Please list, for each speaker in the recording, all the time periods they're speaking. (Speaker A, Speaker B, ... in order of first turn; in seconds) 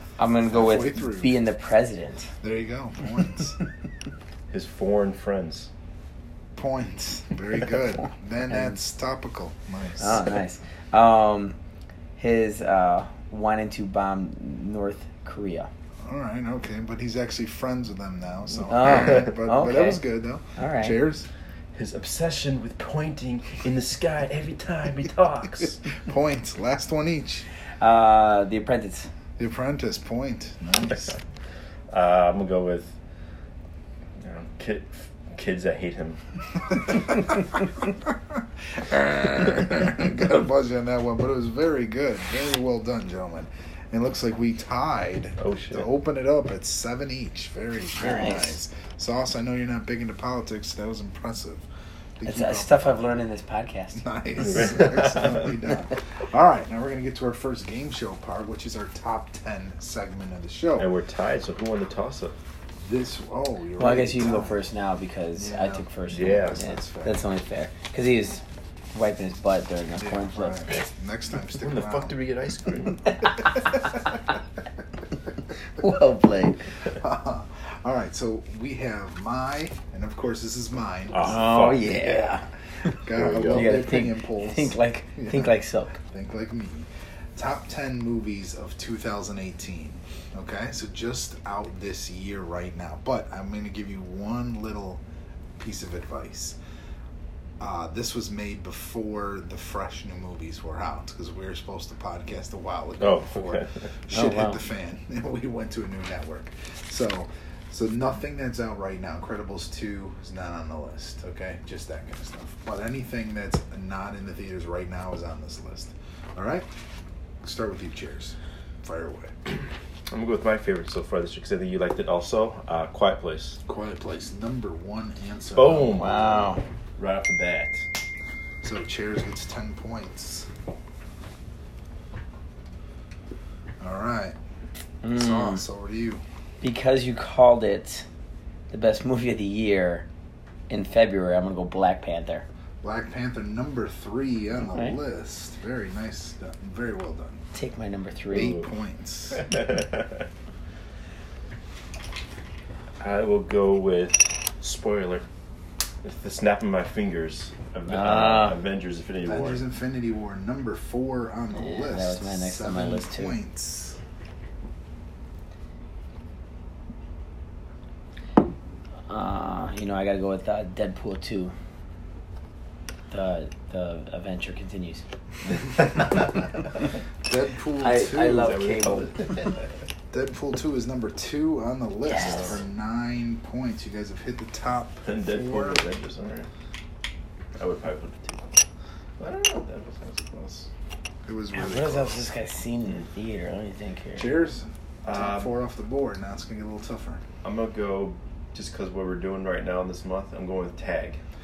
Speaker A: 0.2-2.3, 8.5-8.8, 10.0-11.6, 12.2-15.7, 18.7-20.0, 20.6-21.0, 27.8-29.1, 48.0-48.6, 52.2-54.0, 63.8-70.7, 75.8-76.6, 81.2-82.5, 83.5-86.0, 104.1-104.6, 125.9-126.6, 135.0-135.6, 136.6-138.1, 138.7-140.1, 140.7-142.4, 144.7-145.0, 147.5-148.6, 157.9-158.6, 161.6-163.3, 169.1-171.5, 173.1-176.0, 177.8-179.3, 182.1-182.6, 191.5-194.3
Speaker B: 0.5-1.3, 2.4-3.6, 6.6-10.2, 16.0-21.3, 25.9-27.5, 29.4-31.2, 36.7-51.7, 52.2-53.0, 53.9-60.9, 62.8-64.6, 65.4-67.2, 70.0-72.2, 76.9-82.4, 83.0-95.0, 95.6-96.6, 97.6-116.7, 117.4-119.3, 123.7-126.0, 128.6-130.5, 133.8-134.4, 135.1-136.2, 142.8-147.4, 148.3-149.5, 159.2-164.0, 177.2-178.6, 180.1-185.8, 191.3-192.2, 194.2-197.2
Speaker C: 4.5-5.7, 18.5-19.3, 21.7-25.8, 31.9-32.9, 34.2-36.2, 45.4-45.9, 54.6-55.3, 60.8-62.4, 66.1-66.6, 71.5-73.1, 81.1-81.9, 83.1-83.8, 103.0-103.8, 120.1-123.6, 125.5-127.8, 149.4-150.3, 153.0-155.2, 156.0-159.6, 178.3-179.7, 185.0-186.5, 187.6-188.5, 189.2-190.7, 195.0-195.5, 197.4-201.2